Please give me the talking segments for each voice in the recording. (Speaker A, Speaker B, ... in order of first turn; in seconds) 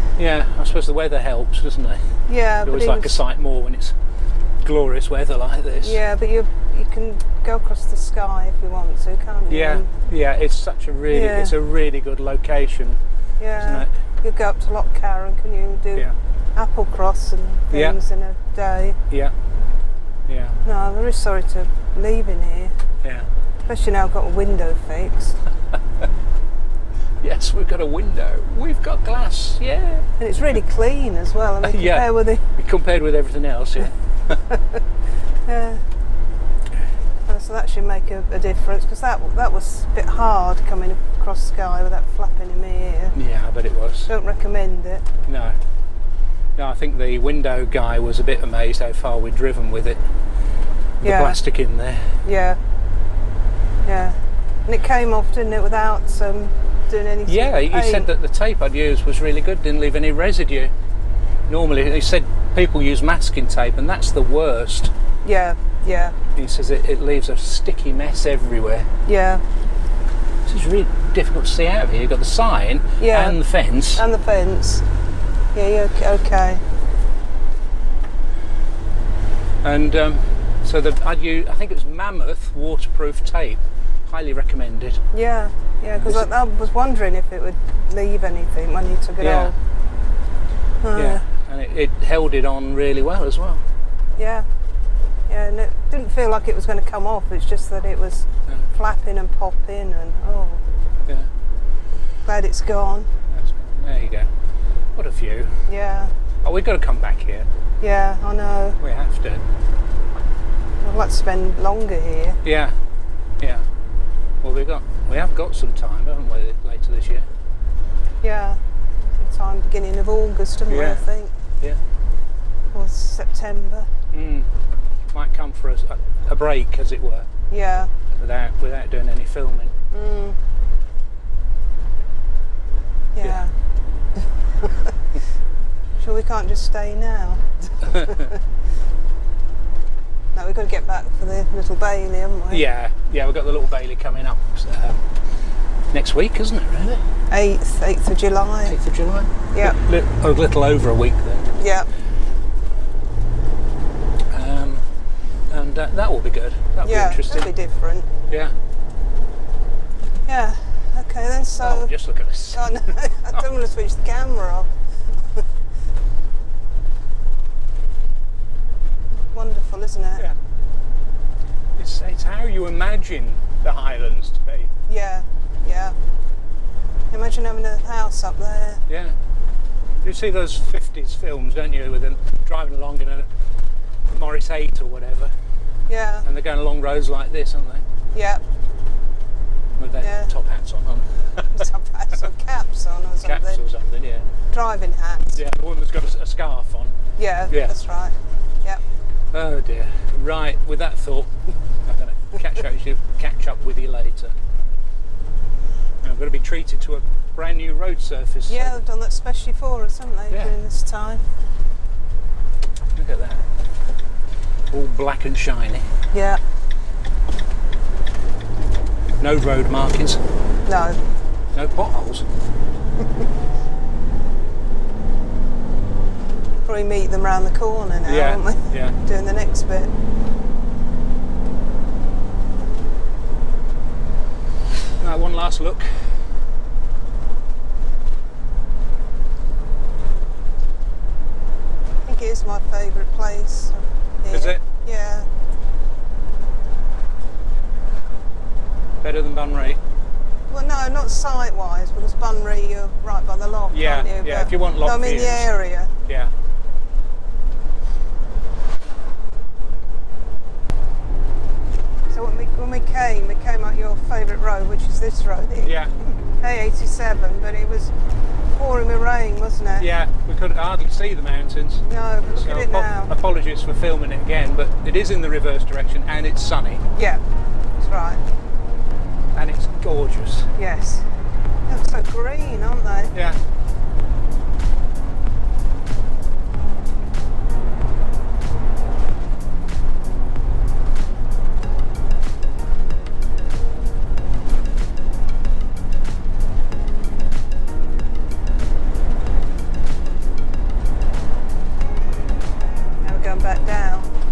Speaker A: 0.1-4.0, 4.6-6.0, 9.5-13.0, 13.6-13.9, 20.3-20.6, 23.0-23.3, 27.2-30.6, 31.6-34.4, 43.1-44.1, 45.2-45.6, 46.5-50.1, 51.0-52.2, 57.3-60.7, 61.5-64.9, 66.3-68.9, 70.4-74.0, 79.6-85.0, 86.0-86.3, 89.2-89.5, 90.9-93.6, 103.3-104.3, 104.9-105.6, 106.4-107.5, 108.8-109.5, 112.4-112.8, 113.4-113.7, 114.4-117.3, 120.7-121.0, 124.1-124.5, 125.1-127.3, 128.1-129.7, 133.2-133.4, 142.5-145.1, 145.9-147.0, 148.7-151.5, 154.3-154.9, 155.5-157.5, 158.3-158.6, 161.6-163.4, 171.8-174.7, 178.9-179.2, 180.0-183.3, 184.1-185.3, 186.2-187.8, 189.8-191.7, 193.2-194.3, 195.3-197.0, 197.5-197.8, 199.3-201.3, 201.8-204.3, 206.0-208.8, 212.9-213.4, 214.7-215.9, 219.2-220.2, 221.5-222.3, 228.0-229.0, 235.0-236.3, 244.3-244.6, 249.0-249.8, 253.7-255.5, 256.0-256.3, 265.6-265.9, 269.8-276.9, 279.3-280.5, 283.1-283.4
Speaker B: 2.3-3.2, 5.8-9.9, 11.1-11.6, 13.4-19.0, 20.6-22.7, 23.6-25.4, 30.2-32.4, 34.3-34.8, 35.4-35.8, 37.2-43.1, 44.1-45.0, 51.0-51.4, 52.2-52.6, 53.8-58.1, 65.2-66.2, 69.0-69.4, 73.0-73.4, 73.9-74.8, 75.5-76.6, 85.1-89.5, 90.8-91.2, 94.2-94.5, 95.3-100.6, 102.2-103.1, 105.7-106.1, 107.8-108.8, 110.8-112.4, 118.2-121.3, 122.7-123.9, 127.5-127.9, 129.9-130.4, 133.1-133.5, 134.6-134.9, 136.0-138.4, 140.3-142.6, 147.3-148.8, 149.5-149.8, 151.6-151.9, 156.8-158.1, 160.2-161.9, 162.5-164.7, 169.3-170.2, 174.9-176.0, 177.1-178.8, 185.9-186.3, 188.1-188.4, 190.0-190.3, 191.5-193.6, 194.5-195.4, 197.2-198.8, 208.5-211.2, 216.1-216.4, 220.6-221.0, 226.6-229.9, 242.0-245.3, 250.5-255.9, 262.1-267.9, 268.5-269.9, 271.8-273.1, 276.9-277.2, 277.8-278.2, 280.6-281.1, 281.7-283.1, 303.0-304.1